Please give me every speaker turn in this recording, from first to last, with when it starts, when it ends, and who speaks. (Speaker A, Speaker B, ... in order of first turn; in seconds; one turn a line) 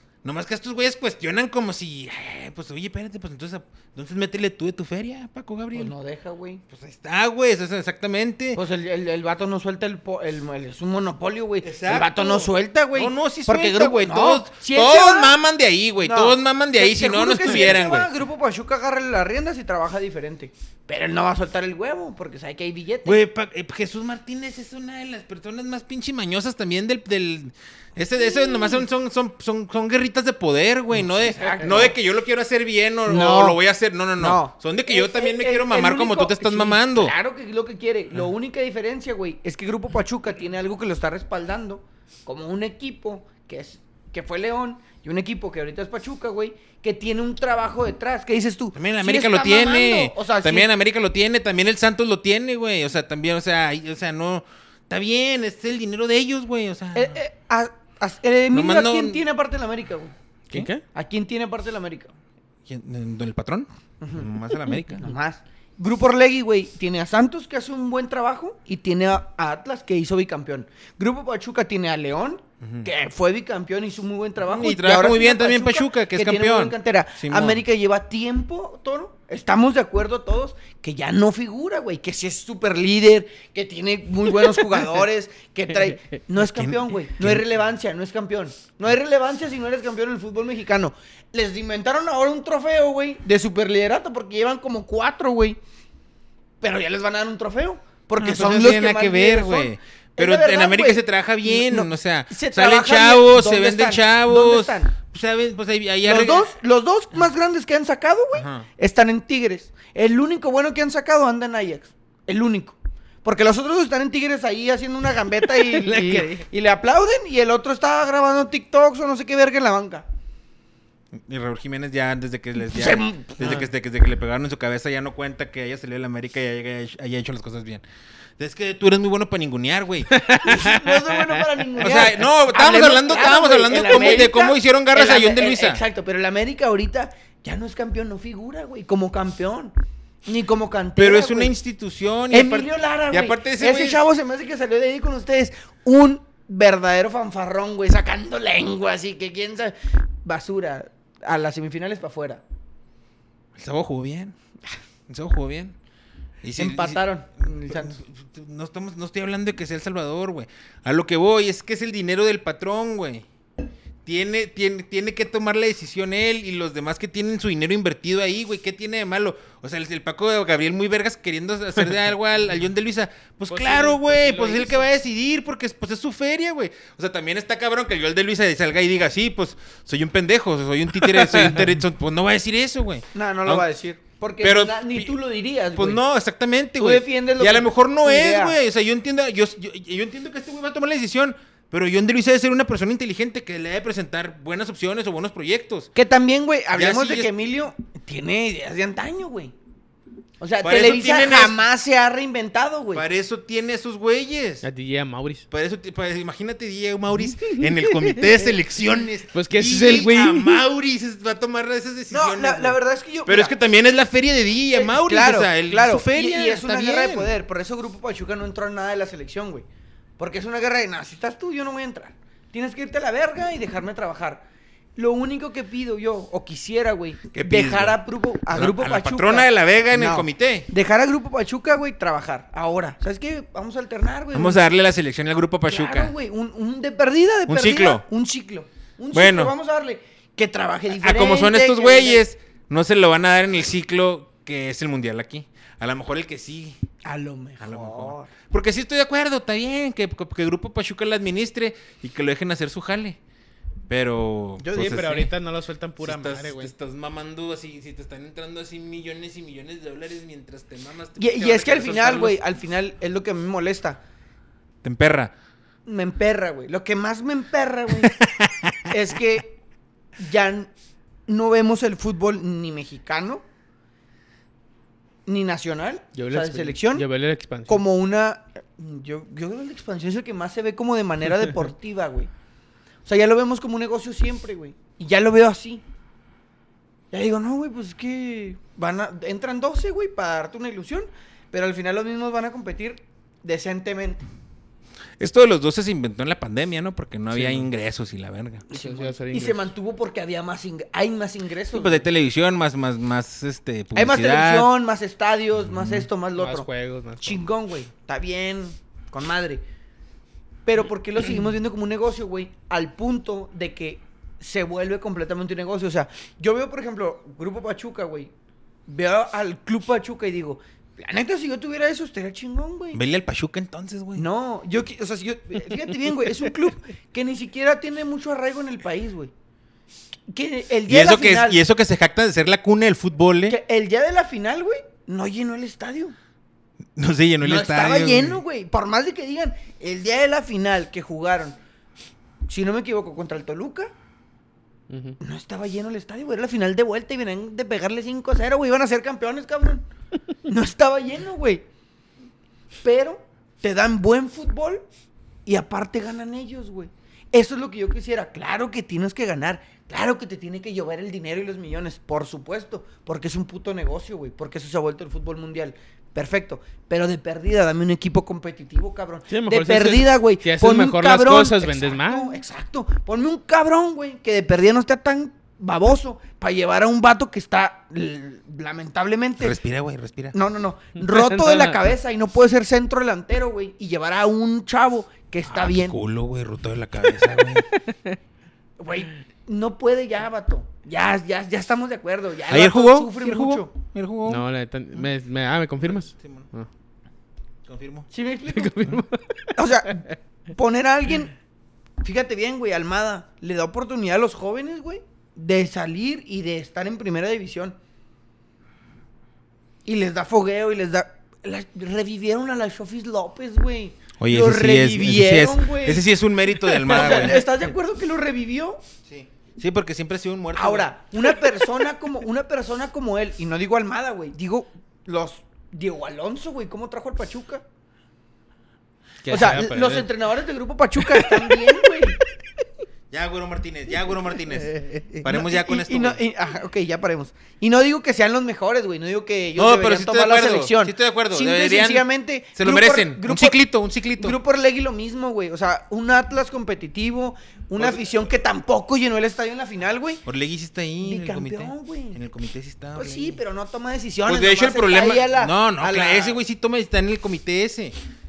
Speaker A: 0.2-5.9
Speaker B: 5.7-6.6
Speaker A: 6.7-8.6
Speaker B: 8.6-15.4
Speaker A: 11.6-18.1
Speaker B: 16.1-23.2
Speaker A: 23.1-37.1
Speaker B: 28.3-28.8
Speaker B: 31.0-31.9
Speaker B: 33.1-33.6
Speaker B: 34.2-50.7
Speaker A: 48.8-57.2
Speaker B: 57.0-60.1
Speaker A: 58.5-59.2
Speaker C: 60.5-60.8
Speaker B: 60.9-62.1
Speaker A: 62.7-65.1
Speaker B: 64.0-64.3
Speaker B: 65.0-95.6
Speaker A: 72.6-72.9
Speaker A: 74.5-77.6
Speaker A: 86.4-87.5
Speaker B: 96.6-105.0
Speaker A: 98.2-106.5
Speaker B: 106.0-120.0
Speaker A: 108.3-108.7
Speaker C: 115.4-116.5
Speaker A: 121.1-127.8
Speaker B: 122.7-123.6
Speaker A: 128.4-130.2
Speaker C: 130.1-131.4
Speaker B: 130.4-141.5
Speaker A: 131.8-135.8
Speaker A: 141.0-144.0
Speaker B: 142.3-152.4
Speaker A: 153.6-154.3
Speaker A: 155.1-155.8
Speaker A: 156.4-163.3
Speaker B: 156.6-158.0
Speaker A: 164.1-183.7
Speaker C: 173.5-174.9
Speaker C: 181.3-181.6
Speaker B: 183.2-186.0
Speaker A: 184.4-185.1
Speaker A: 185.7-195.9
Speaker B: 186.8-188.6
Speaker B: 195.9-199.5
Speaker A: 196.7-197.3
Speaker B: 200.4-203.1
Speaker A: 200.6-201.6
Speaker A: 202.9-204.7
Speaker C: 204.6-205.5
Speaker A: 205.5-217.3
Speaker C: 207.4-208.2
Speaker C: 209.3-210.6
Speaker B: 212.1-213.6
Speaker B: 214.7-219.7
Speaker B: 220.2-224.4
Speaker B: 225.0-234.7
Speaker A: 227.3-228.0
Speaker A: 228.5-230.7
Speaker A: 234.3-236.1
Speaker B: 235.7-242.2
Speaker A: 237.5-238.1
Speaker A: 239.1-239.5
Speaker A: 240.9-246.8
Speaker B: 247.0-248.3
Speaker A: 247.6-253.2
Speaker A: 253.9-255.3
Speaker C: 254.6-256.7
Speaker B: 254.7-255.1
Speaker A: 256.0-262.4
Speaker B: 261.2-264.0
Speaker A: 264.8-265.3
Speaker B: 265.9-268.2
Speaker A: 268.0-268.8
Speaker B: 268.9-269.6
Speaker B: 270.2-270.7
Speaker B: 271.3-273.4
Speaker B: 275.3-277.1
Speaker C: 276.1-277.8
Speaker B: 277.7-282.3
Speaker B: 283.1-285.8
Speaker B: 287.1-294.2
Speaker A: 295.2-298.7
Speaker C: 297.3-297.7
Speaker B: 298.7-302.0
Speaker C: 298.7-299.7
Speaker A: 301.7-304.7
Speaker B: 303.9-306.7
Speaker A: 305.6-306.1
Speaker C: 306.4-307.4
Speaker B: 307.2-309.6
Speaker B: 310.7-318.3
Speaker B: 318.9-323.0
Speaker A: 322.9-324.3
Speaker B: 324.1-329.3
Speaker B: 330.3-331.6
Speaker A: 330.9-333.6
Speaker B: 333.5-336.1
Speaker A: 337.0-338.4
Speaker B: 337.4-341.6
Speaker B: 342.5-343.9
Speaker C: 344.9-345.2
Speaker B: 345.2-349.9
Speaker B: 350.5-351.6
Speaker B: 352.8-354.8
Speaker B: 355.5-379.6
Speaker C: 369.3-372.4
Speaker A: 379.4-380.4
Speaker B: 380.3-386.0
Speaker C: 381.0-381.8
Speaker A: 385.5-387.7
Speaker C: 387.4-388.2
Speaker B: 388.8-393.7
Speaker A: 392.5-394.4
Speaker C: 394.3-396.7
Speaker A: 396.1-396.5
Speaker A: 397.7-398.1
Speaker B: 398.1-398.9
Speaker C: 398.5-399.6
Speaker B: 399.6-401.3
Speaker B: 402.0-407.8
Speaker B: 409.9-418.8
Speaker A: 414.2-417.5
Speaker A: 419.1-420.9
Speaker B: 420.5-427.6
Speaker C: 429.2-430.1
Speaker B: 429.3-432.2
Speaker C: 431.0-431.9
Speaker A: 433.1-436.2
Speaker C: 434.8-435.0
Speaker B: 435.1-443.6
Speaker A: 439.6-444.4
Speaker B: 444.2-450.2
Speaker A: 450.3-453.4
Speaker B: 451.0-452.2
Speaker B: 453.0-456.4
Speaker A: 454.3-458.0